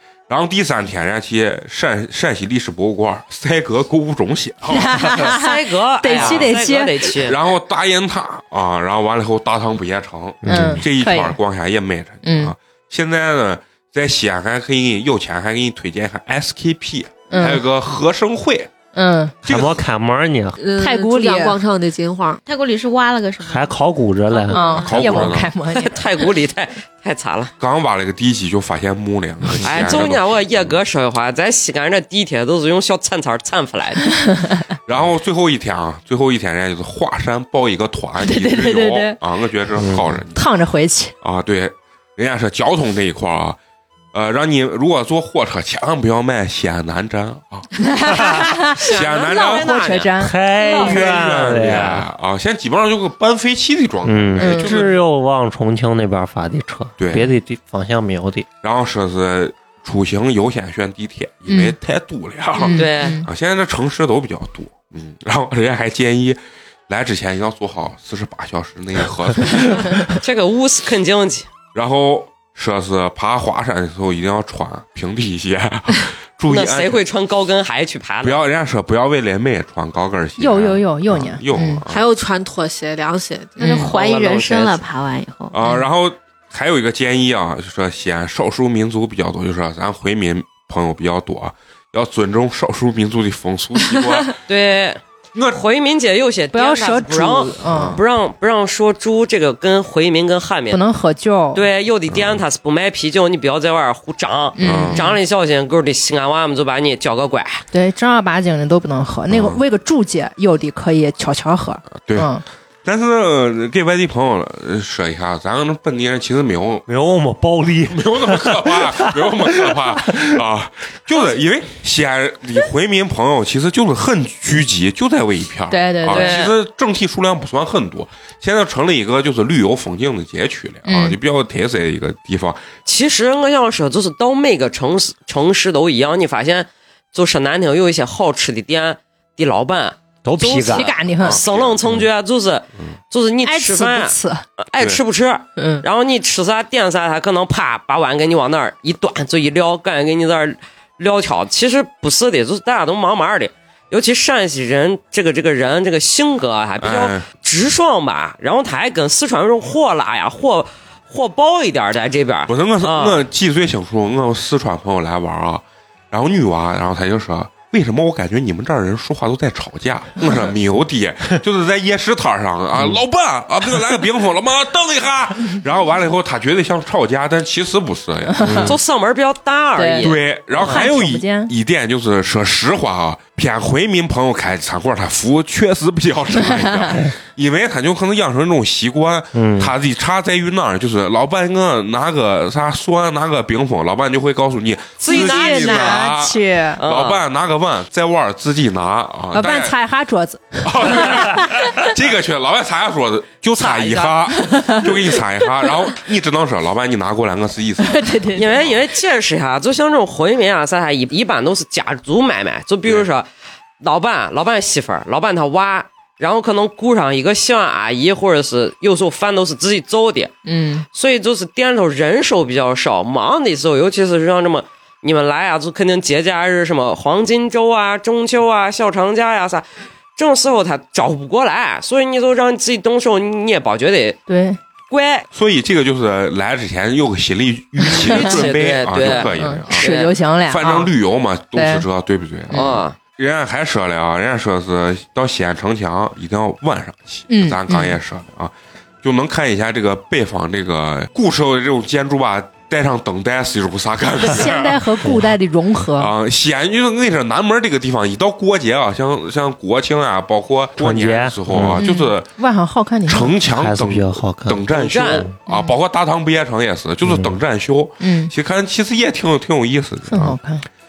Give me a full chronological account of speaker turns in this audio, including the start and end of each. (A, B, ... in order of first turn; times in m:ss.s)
0:00.3-0:05.2 A
0:04.7-0:07.1 B
0:05.2-0:07.4 C
0:06.1-0:06.5 A
0:07.2-0:18.7 A
0:10.4-0:10.8 D
0:10.4-0:11.4 B
0:12.2-0:12.5 B
0:17.3-0:17.6 B
0:18.9-0:19.3 B
0:19.4-0:19.8 A
0:19.4-0:20.6 D
0:20.6-0:22.4 E
0:20.8-0:21.6 B
0:22.4-0:23.8 F
0:23.4-0:25.3 D
0:24.3-0:24.9 F
0:24.5-0:26.0 B
0:24.8-0:25.5 A
0:25.7-0:27.5 C
0:27.6-0:30.4 A
0:29.6-0:34.0 C
0:34.0-0:34.6 B
0:34.9-0:40.4 A
0:38.2-0:39.2 B
0:39.8-0:40.2 D
0:40.3-0:41.1 B
0:41.2-0:43.6 A
0:44.1-0:47.7 A
0:47.8-0:51.3 B
0:48.8-0:50.1 C
0:48.8-0:49.8 A
0:50.2-0:52.1 D
0:50.7-0:54.9 A
0:54.0-0:58.5 D
0:54.4-0:54.7 B
0:57.0-0:57.3 A
0:58.6-1:10.1 A
1:01.5-1:01.7 B
1:02.6-1:03.3 B
1:02.7-1:03.2 C
1:10.1-1:11.5 C
1:11.7-1:17.0 A
1:16.5-1:18.4 C
1:18.2-1:22.0 A
1:20.4-1:21.8 B
1:21.8-1:23.8 E
1:23.6-1:25.5 F
1:23.6-1:24.8 C
1:25.5-1:34.4 A
1:34.5-1:35.0 C
1:35.3-1:35.6 A
1:35.5-1:40.8 C
1:36.5-1:38.0 B
1:37.6-1:38.0 A
1:40.7-1:41.6 B
1:41.5-1:47.6 C
1:42.1-1:42.4 A
1:44.6-1:45.2 B
1:44.6-1:45.1 A
1:47.7-1:52.4 B
1:49.3-1:49.6 A
1:51.9-1:52.3 A
1:52.8-1:56.8 A
1:56.9-2:00.3 D
1:57.9-2:12.6 A
2:05.7-2:06.5 B
2:06.1-2:06.5 C
2:10.8-2:11.2 B
2:12.8-2:43.2 C
2:20.2-2:21.0 D
2:20.5-2:21.4 B
2:21.2-2:21.8 A
2:23.4-2:24.4 B
2:25.6-2:25.8 B
2:36.8-2:37.2 A
2:42.5-2:58.8 A
2:58.3-2:58.7 B
2:58.4-2:58.8 D
2:58.6-3:00.8 C
2:59.8-3:01.5 B
3:00.0-3:19.8 A
3:09.3-3:09.7 D
3:15.0-3:16.1 C
3:15.1-3:16.8 B
3:16.8-3:17.2 C
3:19.3-3:21.7 B
3:20.6-3:28.7 A
3:23.6-3:24.9 C
3:24.4-3:24.9 B
3:27.8-3:28.5 B
3:28.3-3:33.3 C
3:33.8-3:40.3 C
3:40.4-3:40.8 B
3:40.9-3:49.6 C
3:50.2-3:54.2 C
3:54.3-3:54.6 B
3:54.9-3:55.3 C
3:55.3-3:59.9 A
3:57.9-4:00.1 C
3:57.9-3:58.4 B
3:59.0-4:00.9 B
4:00.4-4:15.1 A
4:01.5-4:01.8 B
4:02.5-4:02.8 B
4:02.5-4:03.0 C
4:07.3-4:08.0 B
4:14.2-4:16.1 B
4:15.9-4:22.3 A
4:20.8-4:21.8 D
4:21.6-4:23.4 B
4:23.0-4:30.4 A
4:23.5-4:25.3 D
4:24.7-4:25.3 C
4:25.4-4:25.7 B
4:27.0-4:27.4 D
4:28.0-4:28.3 B
4:30.1-4:30.6 B